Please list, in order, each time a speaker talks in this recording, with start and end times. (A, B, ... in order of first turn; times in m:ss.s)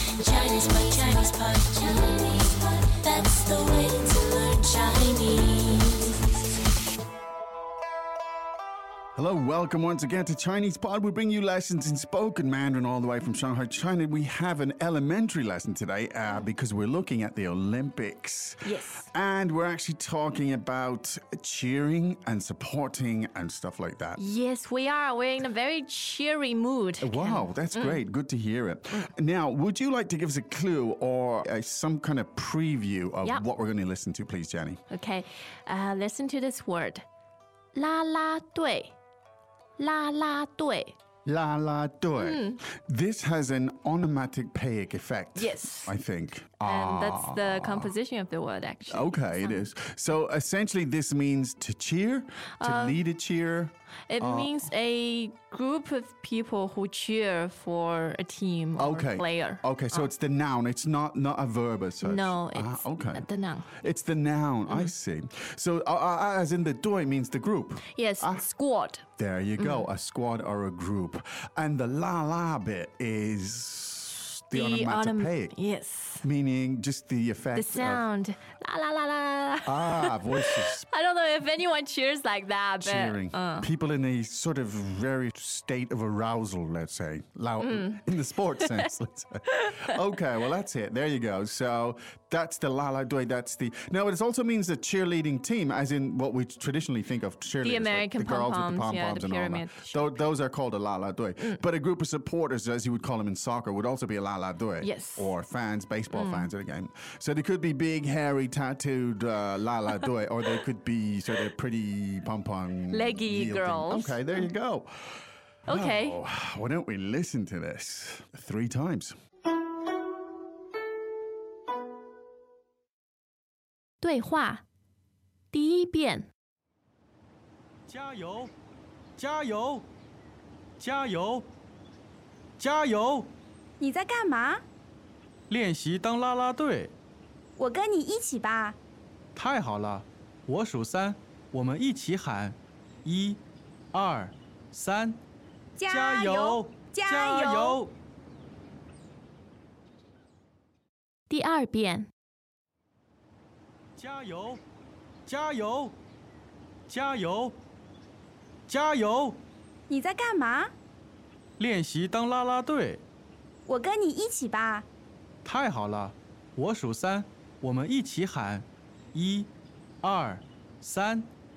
0:00.2-0:06.1 A
0:09.2-0:24.2 B
0:18.6-0:19.1 C
0:24.2-0:28.0 C
0:27.0-0:34.8 B
0:34.9-0:37.0 C
0:37.7-0:39.0 C
0:39.8-0:41.0 C
0:41.3-0:47.9 B
0:42.2-0:42.6 C
0:45.4-0:46.0 C
0:46.6-0:49.6 C
0:48.9-0:54.6 B
0:52.6-0:53.0 C
0:54.1-1:00.1 C
0:58.8-1:08.4 B
1:02.0-1:03.7 C
1:07.9-1:09.0 C
1:09.2-1:15.6 B
1:09.6-1:09.8 C
1:14.5-1:16.2 C
1:16.2-1:18.0 B
1:17.6-1:23.7 C
1:19.7-1:20.8 B
1:22.8-1:55.1 B
1:27.6-1:28.1 C
1:28.6-1:28.9 C
1:29.6-1:29.8 C
1:37.6-1:40.1 C
1:44.8-1:45.3 C
1:46.1-1:46.5 C
1:52.9-1:54.5 C
1:55.7-1:56.2 C
1:55.7-1:59.2 B
2:04.0-2:04.6 C
2:05.5-2:06.3 C
2:07.9-2:08.5 D
2:09.2-2:09.9 D
2:10.8-2:11.5 D
2:12.6-2:13.4 D
2:13.8-2:14.6 E
2:15.5-2:17.0 D
2:17.6-2:18.8 E
2:19.4-2:23.4 D
2:23.9-2:25.2 D
2:25.8-2:27.8 E
2:25.9-2:27.9 D
2:31.3-2:32.1 C
2:34.0-2:34.6 D
2:35.3-2:36.0 D
2:36.9-2:37.6 D
2:38.7-2:39.5 D
2:39.9-2:40.7 E
2:41.6-2:43.0 D
2:43.7-2:44.9 E
2:45.4-2:51.3 D